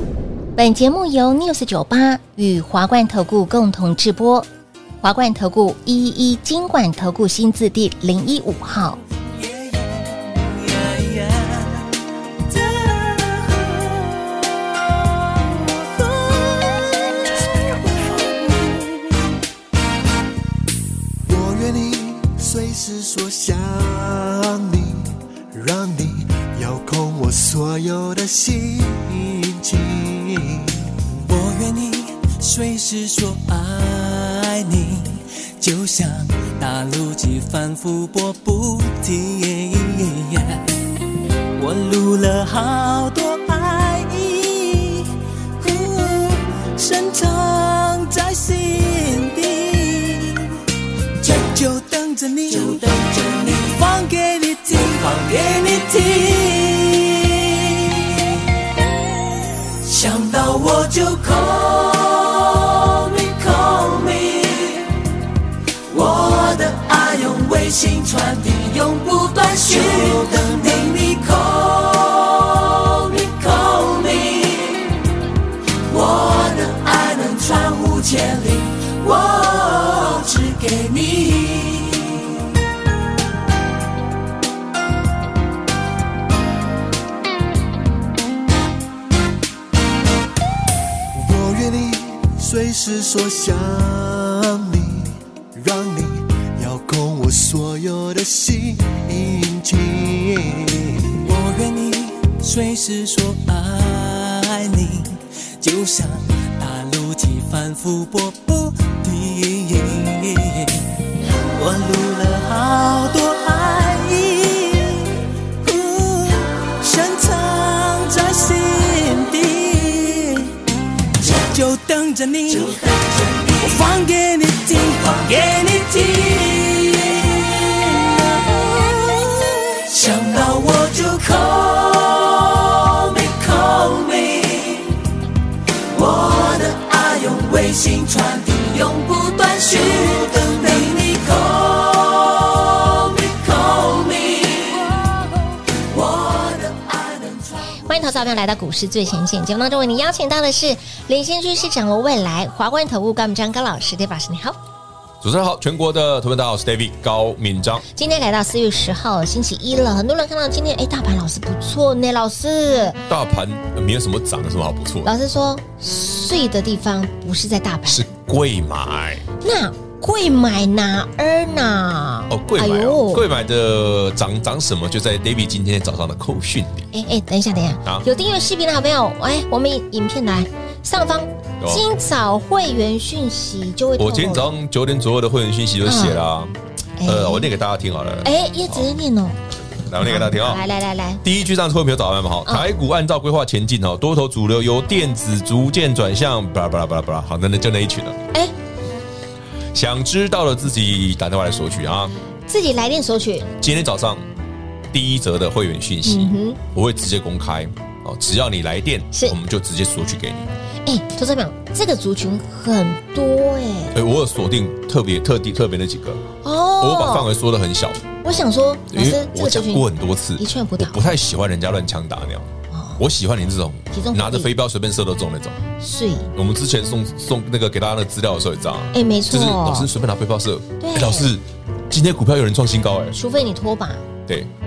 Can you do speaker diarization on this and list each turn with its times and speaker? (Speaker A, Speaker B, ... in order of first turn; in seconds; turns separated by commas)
Speaker A: 0.6-4.5, Speaker A: 5.0-9.0, Speaker B: 9.2-11.9, Speaker B: 12.5-19.3, Speaker C: 21.2-30.8, Speaker B: 31.2-40.8, Speaker B: 41.5-50.6, Speaker B: 51.2-58.5, Speaker B: 59.8-65.0, Speaker B: 65.9-75.0, Speaker B: 75.8-82.4, Speaker C: 91.1-101.2, Speaker B: 101.2-120.6, Speaker B: 121.2-135.0, Speaker B: 135.9-145.1, Speaker B: 145.7-147.6, Speaker A: 147.9-154.6, Speaker D: 155.2-157.8, Speaker A: 157.9-163.0, Speaker D: 163.1-165.1, Speaker A: 165.0-168.1, Speaker D: 167.8-169.2, Speaker A: 169.4-173.3, Speaker D: 172.3-176.9, Speaker A: 176.9-184.5, Speaker D: 181.6-181.8, Speaker D: 184.0-186.5, Speaker A: 185.8-186.2, Speaker A: 187.0-187.5, Speaker D: 187.0-188.9, Speaker A: 188.2-189.4, Speaker D: 189.8-190.6, Speaker A: 190.0-191.2, Speaker D: 191.2-198.2, Speaker D: 199.7-202.1, Speaker A: 202.5-203.5, Speaker D: 203.6-204.2, Speaker D: 204.9-210.5, Speaker A: 206.0-206.6, Speaker A: 210.8-214.0, Speaker D: 213.9-216.2, Speaker A: 216.4-217.3, Speaker D: 216.8-218.0, Speaker A: 218.2-221.1, Speaker D: 218.9-225.6, Speaker A: 222.7-223.0, Speaker A: 223.9-224.5, Speaker A: 225.8-226.3, Speaker D: 226.3-233.2, Speaker A: 228.9-229.9, Speaker A: 230.8-231.3, Speaker A: 233.1-234.0